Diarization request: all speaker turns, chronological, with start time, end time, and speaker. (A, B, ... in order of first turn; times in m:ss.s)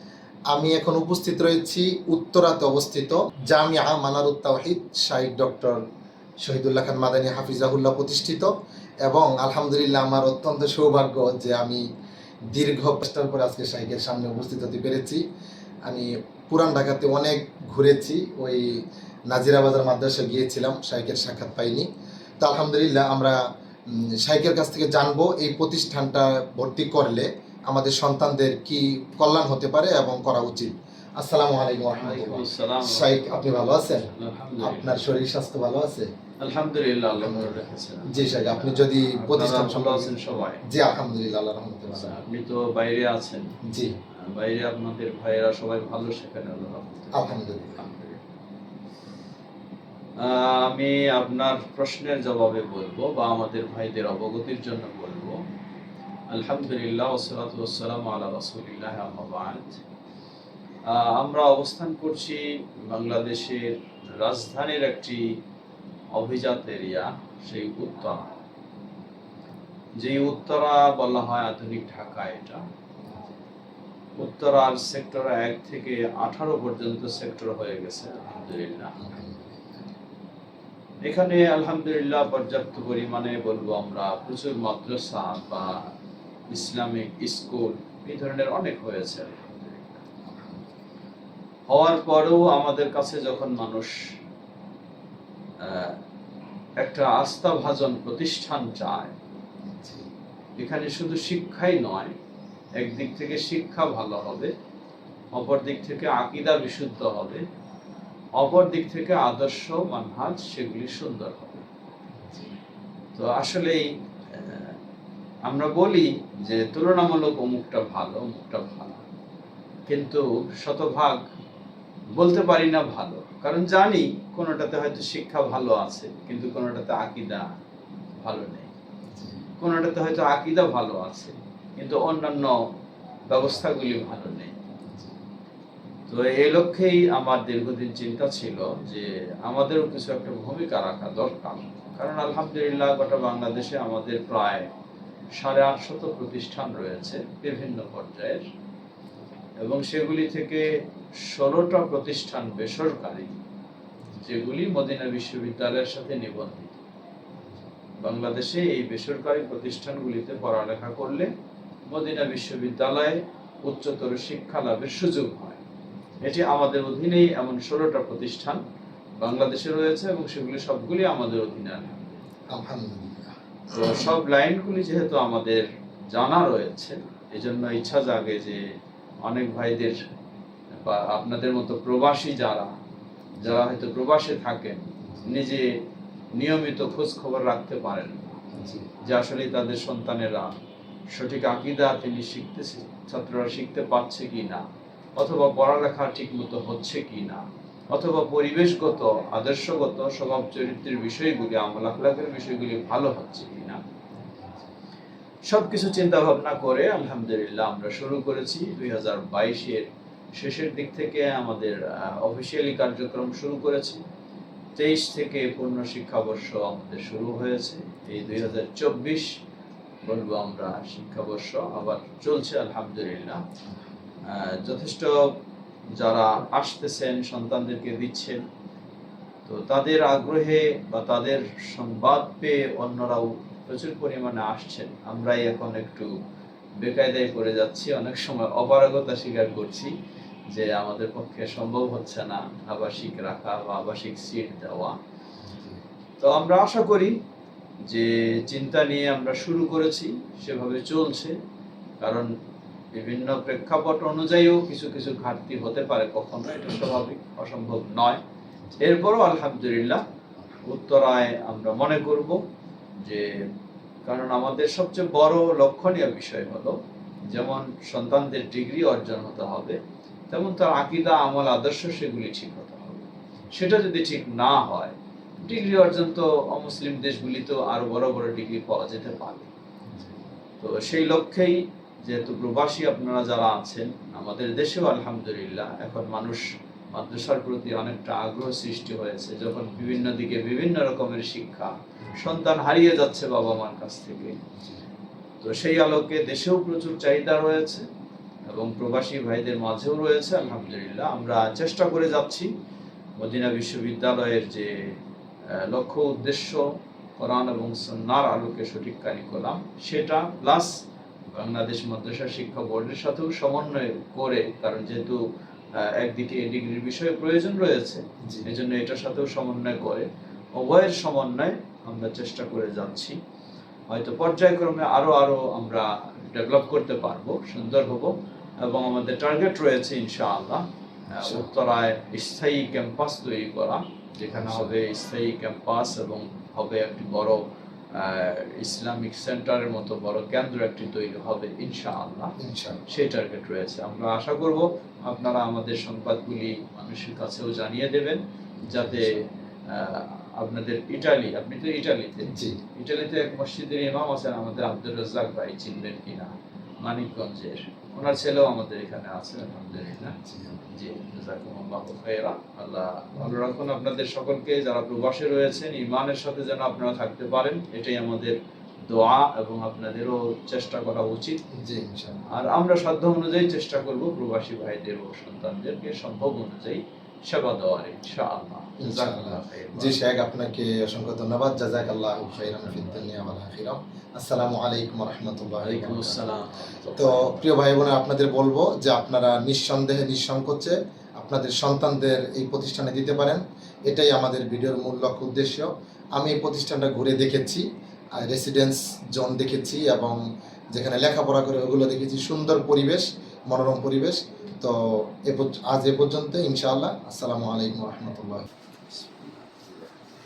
0:00.5-0:05.8 A
0:06.4-0:08.5 A
0:09.0-0:11.8 A
0:12.5-0:15.2 A
0:15.9-0:21.9 A
0:22.4-0:23.4 A
0:24.0-0:34.1 A
0:31.9-0:35.2 B
0:34.6-0:36.1 A
0:36.4-0:40.6 B
0:37.2-0:40.1 A
0:40.7-0:42.2 A
0:42.0-0:43.5 B
0:44.2-0:48.2 B
0:47.1-0:47.8 A
0:50.2-0:55.4 B
0:56.3-0:59.8 B
1:00.9-1:05.2 B
1:06.2-1:08.2 B
1:10.0-1:12.6 B
1:14.2-1:18.9 B
1:19.0-1:19.8 A
1:21.0-1:25.8 B
1:26.5-1:30.1 B
1:30.2-1:30.8 A
1:31.7-1:33.9 B
1:35.6-1:36.0 B
1:36.8-1:39.2 B
1:39.8-1:40.0 A
1:40.6-1:42.1 B
1:42.8-1:44.5 B
1:45.4-1:47.4 B
1:48.4-1:51.6 B
1:53.2-1:54.8 B
1:55.5-1:59.0 B
1:59.9-2:01.2 B
2:02.2-2:07.5 B
2:08.2-2:08.7 B
2:09.1-2:09.4 A
2:09.6-2:12.6 B
2:13.3-2:14.6 B
2:16.1-2:24.7 B
2:25.4-2:28.4 B
2:29.6-2:30.7 B
2:31.2-2:33.4 B
2:34.2-2:36.8 B
2:38.0-2:41.3 B
2:41.9-2:45.6 B
2:46.2-2:48.6 B
2:49.2-2:52.2 B
2:52.5-2:53.3 A
2:53.7-2:58.6 B
2:59.2-3:00.0 B
3:00.8-3:02.7 B
3:03.4-3:05.7 B
3:06.4-3:08.4 B
3:08.5-3:08.9 A
3:09.0-3:10.5 B
3:11.1-3:14.6 B
3:15.2-3:23.8 B
3:25.5-3:34.0 B
3:34.8-3:39.3 B
3:40.0-3:43.4 B
3:44.3-3:45.4 B
3:46.0-3:48.4 B
3:49.4-3:56.1 B
3:56.8-3:59.9 B
4:00.5-4:05.0 B
4:05.4-4:05.8 A
4:06.2-4:07.2 B
4:07.9-4:11.3 B
4:12.0-4:12.3 B
4:13.0-4:18.2 B
4:18.8-4:20.0 B
4:20.6-4:22.4 B
4:23.0-4:23.4 B
4:24.1-4:29.8 B
4:30.3-4:39.5 B
4:40.6-4:54.4 B
4:55.4-4:57.8 B
4:58.5-5:02.5 B
5:03.2-5:05.0 B
5:05.5-5:06.6 B
5:07.2-5:10.8 B
5:11.4-5:15.2 B
5:15.8-5:20.1 B
5:20.6-5:23.2 B
5:23.9-5:37.4 B
5:31.2-5:31.5 A
5:34.3-5:34.8 A
5:38.0-5:42.4 B
5:42.4-5:42.8 A
5:42.9-5:56.3 B
5:48.7-5:49.2 A
5:52.2-5:52.6 A
5:56.8-6:00.2 B
6:00.1-6:00.7 A
6:00.7-6:08.4 B
6:08.9-6:11.4 B
6:11.6-6:12.2 A
6:12.3-6:20.0 B
6:18.8-6:26.3 A
6:25.6-6:27.5 B
6:27.0-6:37.6 A
6:38.2-6:40.2 A
6:40.7-6:48.5 A
6:48.9-6:49.9 B